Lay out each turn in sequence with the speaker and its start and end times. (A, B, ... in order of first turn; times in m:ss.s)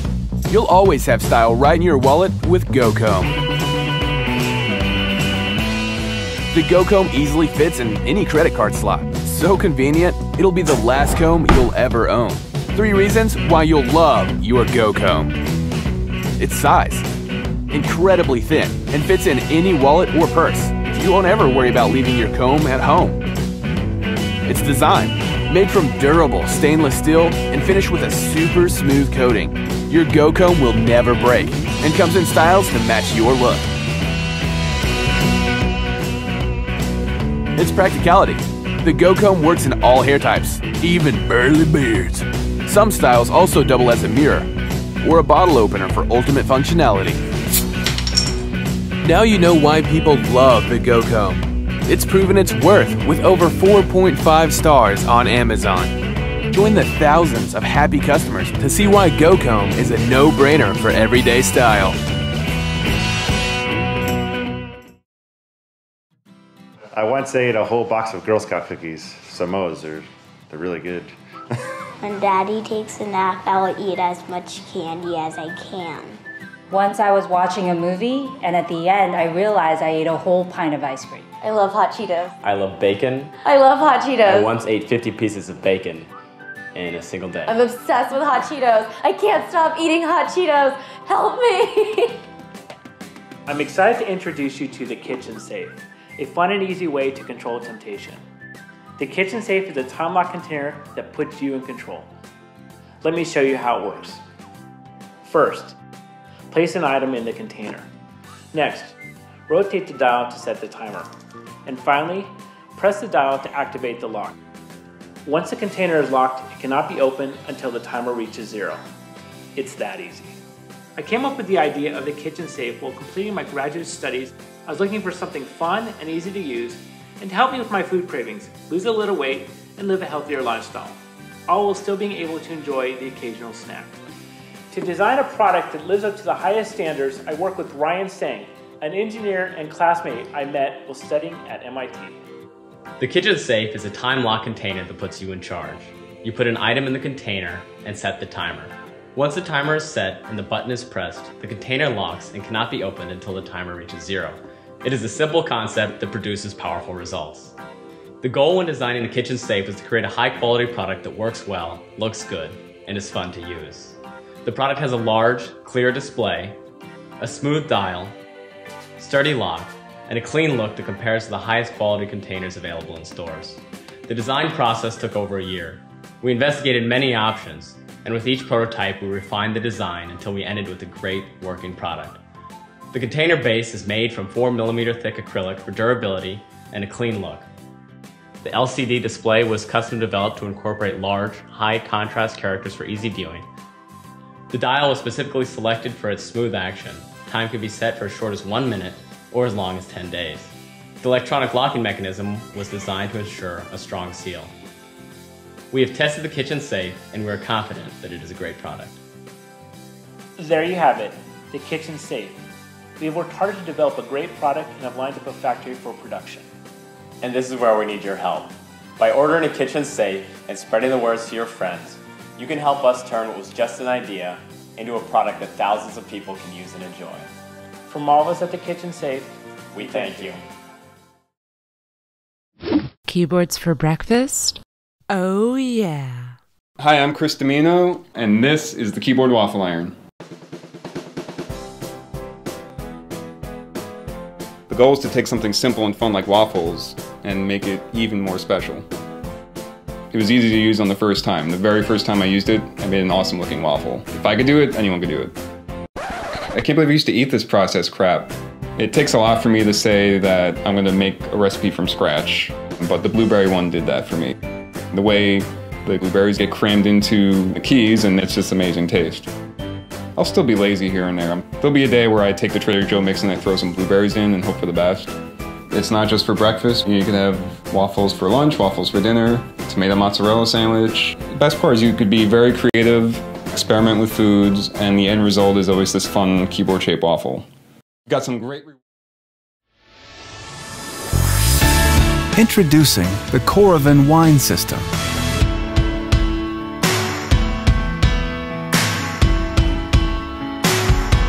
0:00.5-0:03.3 A
0:06.5-0:15.3 A
0:16.4-0:17.0 A
0:17.7-0:23.2 A
0:24.5-0:33.6 A
0:37.6-0:44.5 A
0:45.0-0:47.2 A
0:49.0-0:56.0 A
0:56.5-1:02.0 A
1:06.9-1:11.1 B
1:12.0-1:16.2 C
1:16.7-1:21.3 D
1:21.4-1:22.3 E
1:22.4-1:23.4 F
1:23.4-1:24.5 E
1:24.3-1:26.1 F
1:26.8-1:27.6 F
1:27.5-1:32.2 E
1:33.5-1:38.2 G
1:39.0-1:42.1 G
1:43.0-1:44.2 G
1:45.2-1:45.8 G
1:46.5-1:47.9 G
1:48.5-1:48.9 G
1:49.5-1:51.1 G
1:51.6-1:54.4 G
1:55.2-1:58.8 G
1:59.6-2:00.4 G
2:01.0-2:13.9 G
2:14.7-2:22.2 G
2:23.0-2:37.6 F
2:38.2-2:46.6 F
2:47.2-2:48.2 F
2:49.0-3:02.2 F
3:02.9-3:07.5 F
3:08.4-3:13.5 F
3:14.5-3:24.5 F
3:25.7-3:29.0 F
3:30.4-3:32.4 G
3:33.0-3:36.5 G
3:37.2-3:47.3 F
3:47.9-3:50.1 G
3:49.7-3:50.4 F
3:53.1-3:54.6 H
3:55.1-3:56.3 H
3:56.8-4:00.0 I
4:04.7-4:08.9 I
4:10.1-4:15.4 I
4:16.5-4:24.4 I
4:24.9-4:29.3 I
4:30.2-4:35.1 I
4:35.7-4:47.5 I
4:48.1-4:48.8 I
4:52.4-4:54.9 J